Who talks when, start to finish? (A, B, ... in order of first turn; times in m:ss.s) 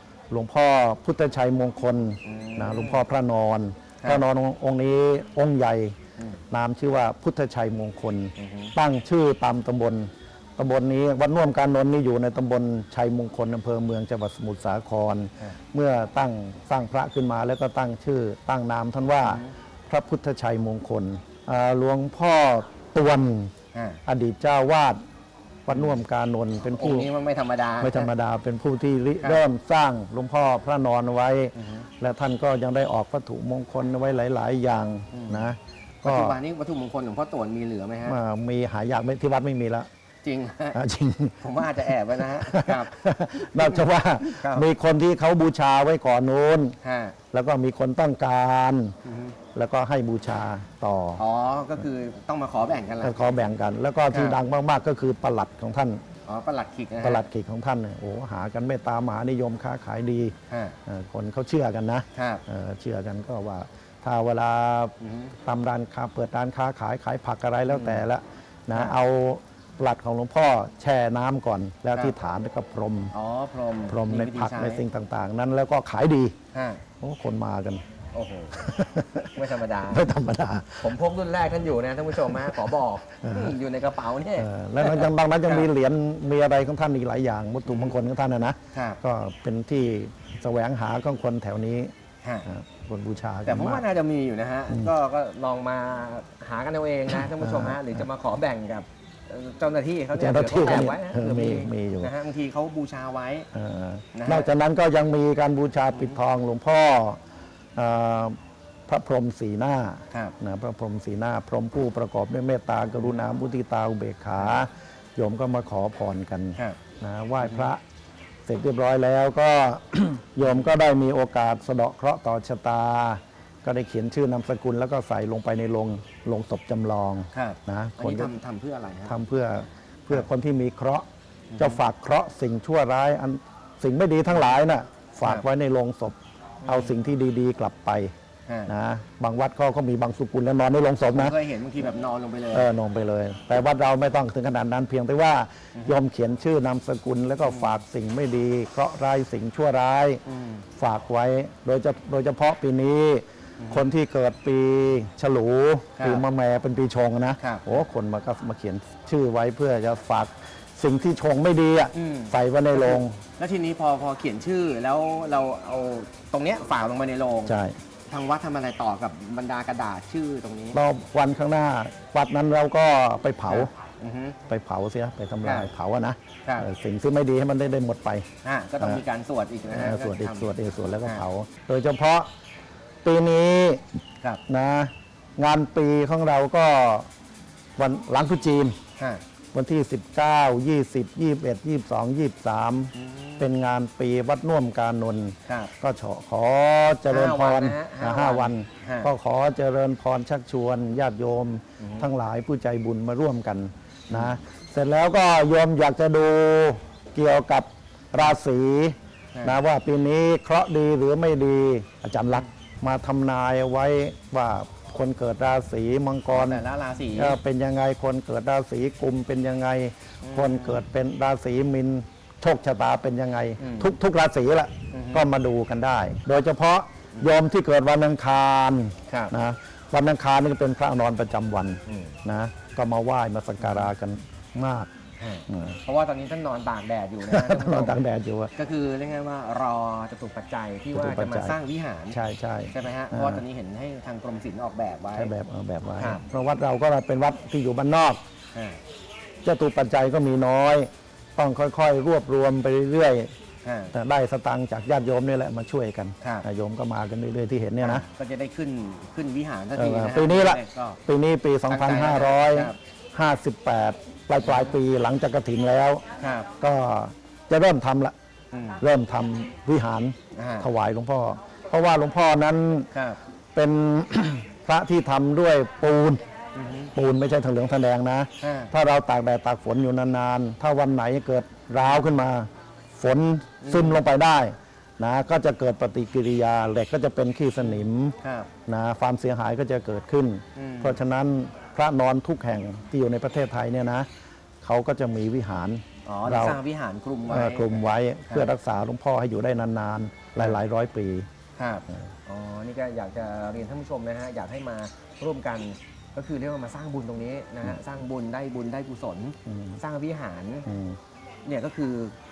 0:00.3-0:05.9 A
0:02.2-0:03.0 B
0:06.5-0:23.5 A
0:08.4-0:08.7 B
0:19.2-0:19.5 B
0:23.7-0:24.0 B
0:24.0-0:25.0 A
0:25.6-0:27.1 A
0:25.7-0:26.0 B
0:26.8-0:28.1 B
0:27.8-0:36.4 A
0:31.6-0:31.8 B
0:35.1-0:35.5 B
0:36.0-0:38.2 B
0:38.0-0:39.9 A
0:40.2-0:40.8 B
0:40.7-0:46.8 A
0:41.4-0:44.7 B
0:46.8-0:47.2 B
0:47.3-0:48.9 A
0:49.0-0:49.4 B
0:49.5-0:51.2 A
0:51.2-0:53.4 B
0:53.0-0:56.0 A
0:54.1-0:54.4 B
0:56.2-0:57.3 B
0:57.0-1:00.3 A
1:00.5-1:00.8 B
1:00.8-1:04.9 A
1:02.1-1:02.4 B
1:05.0-1:05.3 B
1:05.4-1:13.1 A
1:07.7-1:08.0 B
1:13.1-1:14.8 B
1:13.9-1:16.3 A
1:16.5-1:16.8 B
1:17.0-1:17.8 A
1:18.1-1:18.6 B
1:18.5-1:20.9 A
1:19.3-1:20.1 B
1:20.8-1:25.7 B
1:22.2-1:22.6 A
1:23.2-1:23.6 A
1:24.4-1:31.9 A
1:27.6-1:28.0 B
1:28.7-1:29.0 B
1:32.4-1:33.8 A
1:33.4-1:43.5 B
1:37.2-1:38.0 A
1:40.1-1:42.1 A
1:43.5-1:47.2 A
1:44.1-1:44.5 B
1:47.8-1:48.4 A
1:48.9-1:57.8 A
1:57.4-1:57.7 B
1:58.4-2:08.3 A
2:00.4-2:00.7 B
2:07.3-2:09.2 B
2:09.1-2:11.0 A
2:11.5-2:11.8 B
2:11.6-2:18.1 A
2:16.6-2:17.0 B
2:18.5-2:18.7 B
2:18.7-2:21.4 A
2:21.1-2:22.7 B
2:22.5-2:30.2 A
2:27.4-2:27.8 B
2:30.2-2:30.6 B
2:30.8-2:43.2 A
2:33.6-2:33.9 B
2:36.0-2:36.2 B
2:37.4-2:37.8 B
2:41.9-2:47.6 B
2:47.4-2:47.8 A
2:48.1-2:50.8 B
2:50.7-2:53.7 A
2:53.5-2:54.4 B
2:54.5-2:58.2 A
2:55.4-2:55.7 B
2:58.4-3:00.5 B
2:59.7-3:02.3 A
3:03.0-3:03.8 A
3:04.5-3:07.1 A
3:07.8-3:08.8 A
3:09.0-3:09.2 B
3:09.5-3:36.6 A
3:12.9-3:13.5 B
3:15.4-3:15.7 B
3:17.1-3:19.1 B
3:21.8-3:22.1 B
3:24.1-3:24.4 B
3:36.3-3:37.4 B
3:37.1-3:54.9 A
3:40.2-3:40.8 B
3:43.6-3:43.9 B
3:44.9-3:45.2 B
3:49.1-3:49.3 B
3:51.8-3:52.1 B
3:53.6-3:53.9 B
3:55.2-3:58.0 B
3:55.5-3:55.8 A
3:57.2-3:58.5 A
3:58.6-4:02.2 B
4:00.9-4:01.6 A
4:02.1-4:03.4 A
4:02.7-4:05.3 B
4:05.1-4:08.2 A
4:06.0-4:06.2 B
4:08.5-4:08.8 B
4:09.4-4:13.3 A
4:13.6-4:13.9 B
4:13.9-4:18.0 A
4:16.2-4:16.4 B
4:17.8-4:21.0 B
4:19.8-4:26.0 A
4:21.7-4:22.8 B
4:24.4-4:24.8 B
4:26.2-4:26.5 B
4:26.6-4:28.1 A
4:28.5-4:28.8 B
4:28.8-4:32.9 A
4:30.3-4:30.7 B
4:32.9-4:33.2 B
4:33.5-4:36.2 A
4:36.6-4:36.9 B
4:36.9-4:48.1 A
4:38.4-4:38.7 B
4:41.8-4:42.0 B
4:43.6-4:44.0 B
4:47.6-4:48.5 B
4:48.7-4:54.1 A
4:50.5-4:51.0 B
4:54.6-4:56.6 A
4:56.0-4:58.5 B
4:57.3-5:01.3 A
5:01.6-5:10.7 B
5:09.5-5:09.8 A
5:10.6-5:11.0 A
5:11.4-5:12.1 B